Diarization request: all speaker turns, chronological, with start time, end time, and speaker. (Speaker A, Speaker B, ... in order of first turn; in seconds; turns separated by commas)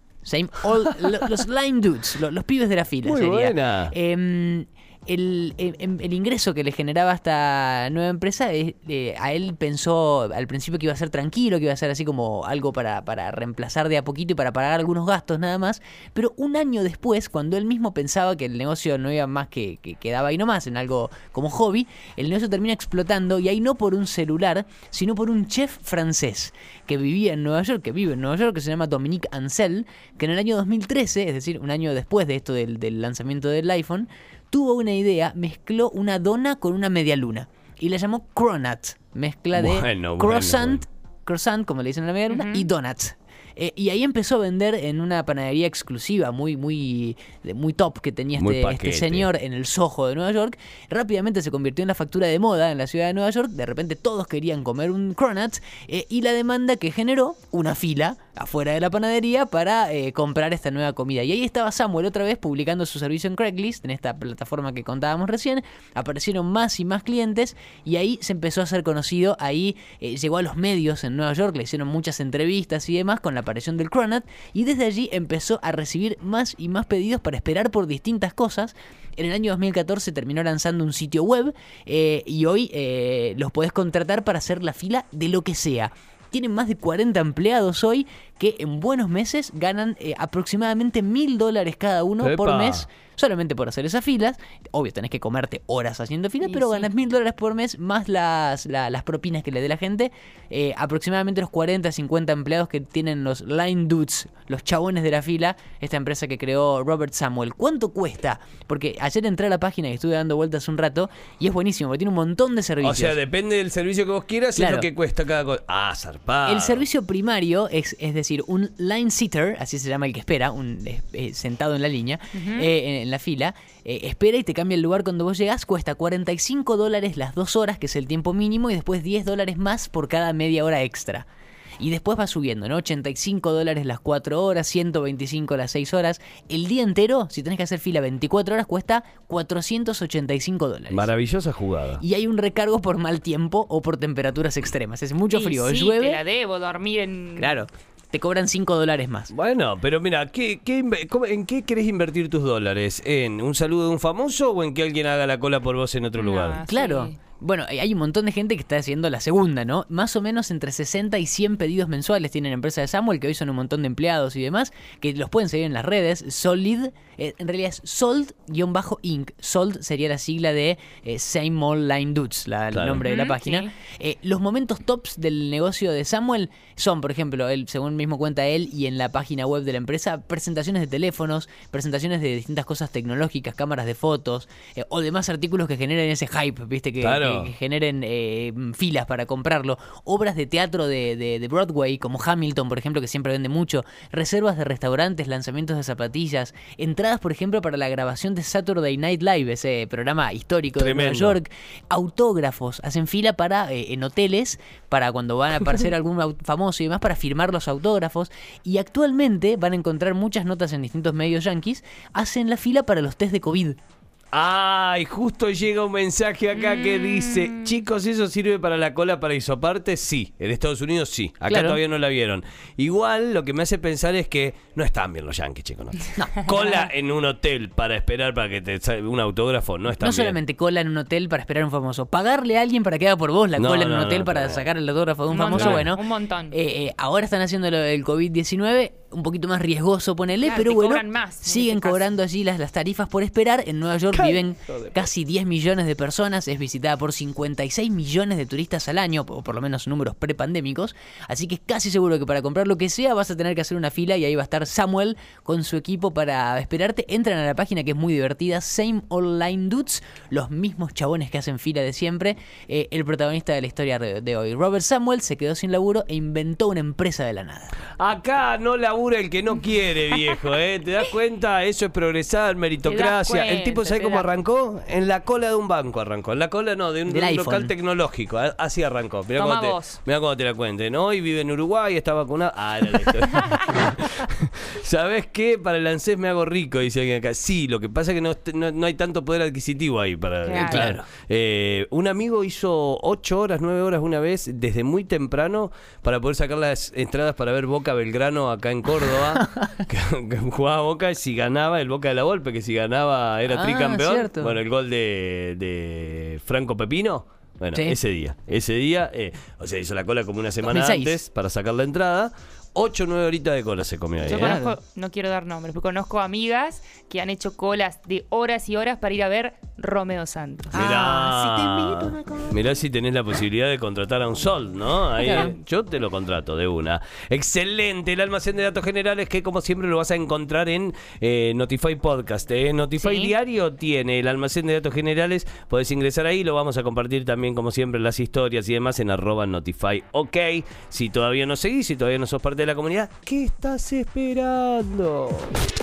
Speaker A: 0.2-113.2, Speaker B: 3.0-3.9, Speaker B: 39.5-40.8, Speaker C: 42.3-42.6, Speaker B: 48.4-49.3, Speaker B: 92.2-92.8, Speaker C: 96.4-96.8, Speaker B: 112.8-116.8, Speaker A: 114.5-114.9, Speaker A: 116.4-131.3, Speaker C: 122.4-122.7, Speaker A: 131.8-141.1, Speaker B: 140.9-142.0, Speaker A: 142.0-146.2, Speaker C: 145.3-147.6, Speaker A: 147.4-149.3, Speaker B: 149.3-156.6, Speaker C: 156.2-157.1, Speaker A: 156.7-213.8, Speaker B: 172.7-173.0, Speaker C: 173.0-173.7, Speaker B: 187.0-187.5, Speaker B: 200.8-201.4, Speaker B: 214.3-230.4, Speaker C: 216.6-217.8, Speaker A: 221.5-221.8, Speaker A: 229.9-267.8, Speaker B: 233.6-234.6, Speaker C: 235.3-236.5, Speaker B: 235.5-235.9, Speaker C: 240.4-242.0, Speaker B: 244.1-245.0, Speaker B: 268.0-314.6, Speaker C: 272.8-274.3, Speaker A: 277.1-277.7, Speaker C: 279.4-280.0, Speaker C: 290.4-291.0, Speaker A: 299.4-299.8, Speaker A: 303.5-304.6, Speaker A: 310.6-311.2, Speaker C: 314.3-320.9, Speaker A: 314.3-314.8, Speaker A: 320.7-322.6, Speaker B: 320.7-345.5, Speaker A: 325.2-325.5, Speaker C: 333.0-333.3